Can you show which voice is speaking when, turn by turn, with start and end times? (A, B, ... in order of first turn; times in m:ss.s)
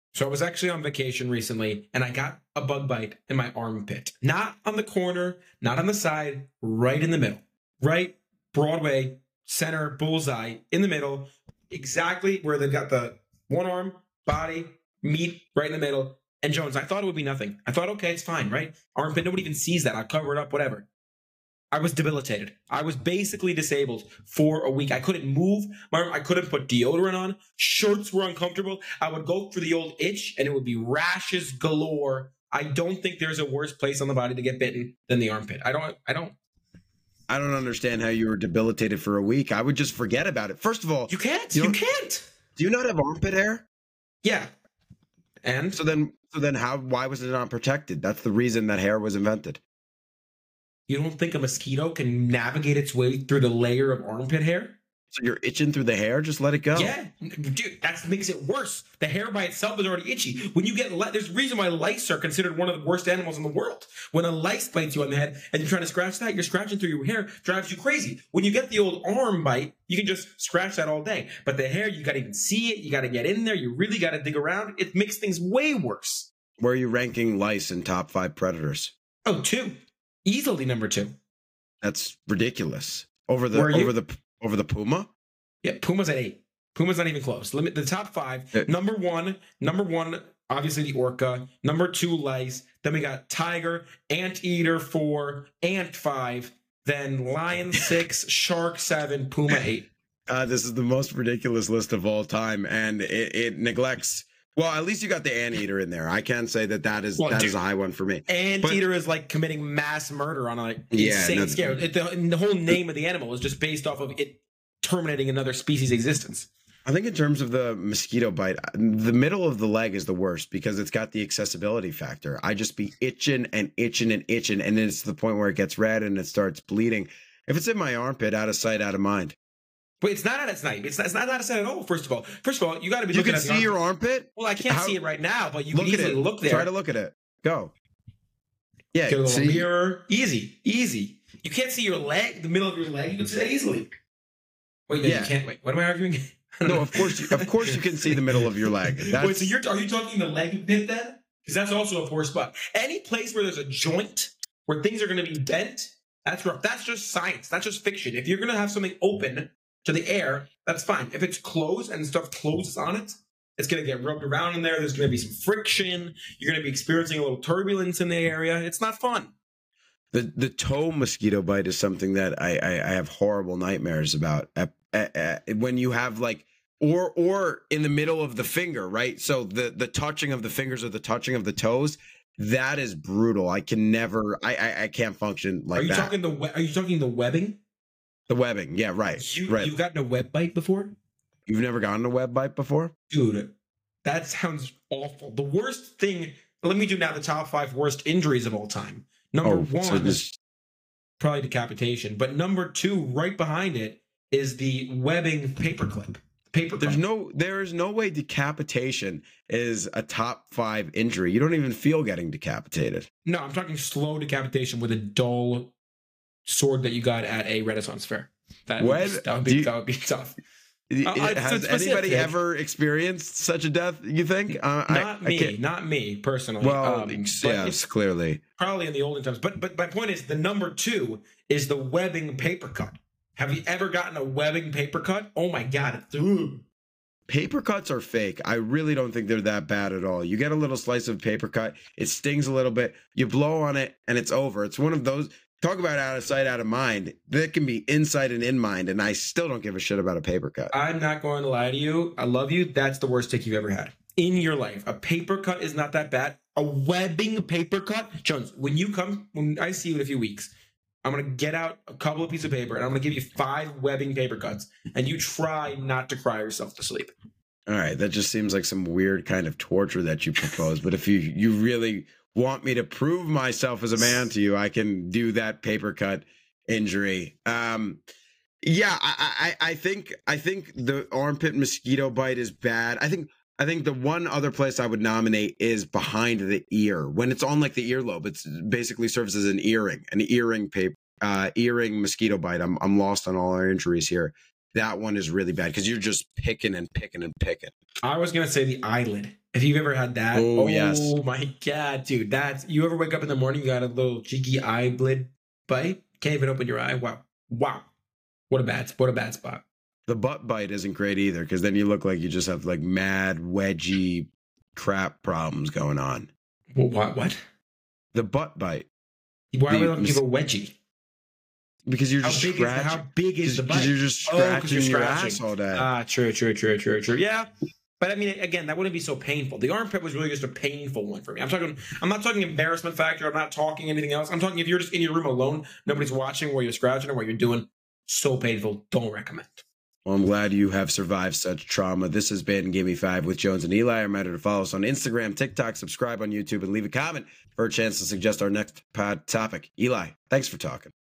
0:00.1-0:20.9 A
0:21.7-0:36.4 A
0:37.3-0:41.8 B
0:41.1-0:42.3 A
0:42.6-0:43.6 B
0:44.2-0:44.5 A
0:45.4-0:45.8 A
0:45.7-0:49.6 B
0:50.9-0:54.8 A
0:55.1-0:56.9 B
0:56.7-1:16.3 A
1:16.6-1:18.9 B
1:19.2-1:21.1 A
1:21.8-1:25.1 B
1:23.5-1:23.9 A
1:25.6-1:39.9 A
1:40.3-1:48.8 B
1:47.2-1:47.6 A
1:48.3-1:56.5 A
1:50.9-1:51.8 B
1:56.8-2:09.4 B
2:10.0-2:13.8 A
2:13.1-2:15.0 B
2:14.4-2:16.7 A
2:15.7-2:17.7 B
2:18.9-2:19.6 B
2:19.0-2:23.9 A
2:24.9-2:49.3 A
2:25.0-2:25.3 B
2:26.6-2:29.5 B
2:50.1-3:06.1 B
3:05.7-3:07.6 A
3:08.3-3:09.7 B
3:09.2-3:10.9 A
3:11.5-3:12.9 B
3:13.1-3:13.5 A
3:14.0-3:20.3 A
3:19.4-3:20.3 B
3:21.2-3:27.0 A
3:26.8-3:33.1 B
3:33.2-3:35.7 A
3:36.4-3:40.4 A
3:38.8-3:39.7 B
3:40.9-3:45.6 B
3:41.0-3:42.3 A
3:44.8-3:47.8 A
3:46.6-3:48.4 B
3:48.6-3:56.6 A
3:57.3-4:10.7 B
4:10.7-4:20.5 A
4:21.0-4:27.1 A
4:27.7-4:38.0 B
4:38.6-4:57.7 B
4:58.0-5:07.8 A
5:00.3-5:01.2 B
5:08.5-5:09.6 A
5:10.1-5:16.3 B
5:16.7-5:17.4 A
5:18.1-5:18.9 B
5:19.5-5:20.7 A
5:19.7-5:20.2 B
5:21.8-5:25.9 B
5:22.2-5:39.6 A
5:40.0-5:50.9 B